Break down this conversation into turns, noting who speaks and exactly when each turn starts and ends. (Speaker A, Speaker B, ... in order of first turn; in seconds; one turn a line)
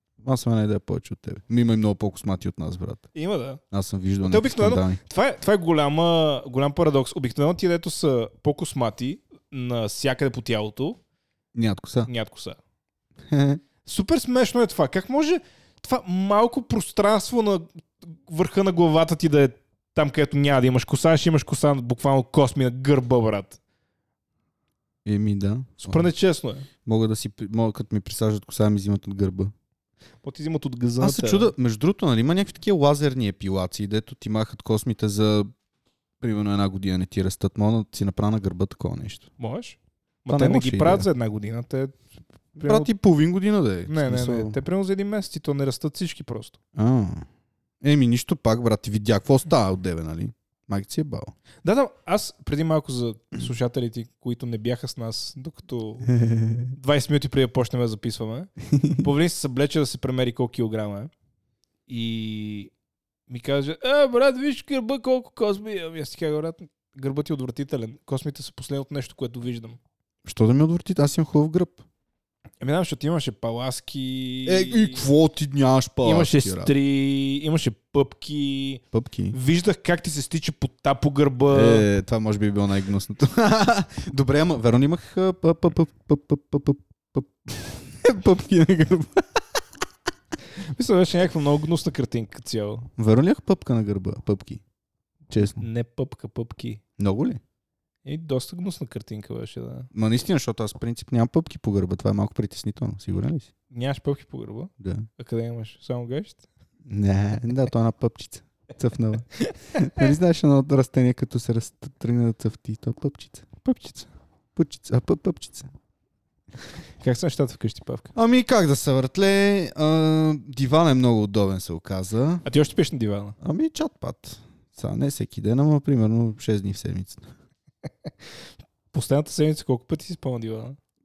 Speaker A: 0.2-3.1
Speaker B: 3.1-3.6
Speaker A: 3.7-5.0
Speaker B: 4.2-11.0
Speaker A: 11.5-12.1
Speaker B: 12.1-12.6
Speaker A: 13.3-13.6
Speaker B: 13.8-23.6
Speaker A: 25.0-26.1
Speaker B: 25.8-26.7
Speaker A: 26.8-29.5
Speaker B: 30.2-31.5
Speaker A: 31.0-35.5
Speaker A: 36.2-39.3
Speaker B: 39.4-42.9
Speaker A: 40.3-41.1
Speaker A: 42.6-44.6
Speaker B: 43.9-46.6
Speaker A: 46.7-47.2
Speaker A: 47.8-51.3
Speaker B: 51.6-56.1
Speaker A: 56.1-56.7
Speaker B: 56.7-61.1
Speaker A: 58.7-59.0
Speaker B: 61.9-62.7
Speaker B: 63.3-69.8
Speaker A: 70.2-71.8
Speaker B: 72.6-75.1
Speaker A: 74.5-76.7
Speaker B: 76.0-81.8
Speaker A: 78.9-79.3
Speaker A: 81.5-89.4
Speaker B: 90.7-92.9
Speaker A: 93.0-94.6
Speaker A: 95.3-95.6
Speaker B: 95.6-96.8
Speaker A: 97.0-97.4
Speaker B: 98.0-99.9
Speaker A: 99.9-103.5
Speaker B: 103.7-106.4
Speaker A: 104.8-105.1
Speaker A: 106.8-113.6
Speaker B: 109.4-110.0
Speaker B: 113.6-114.1
Speaker A: 114.5-115.7
Speaker B: 117.0-118.1
Speaker A: 118.1-122.4
Speaker B: 122.4-123.3
Speaker A: 123.4-127.3
Speaker B: 128.9-130.8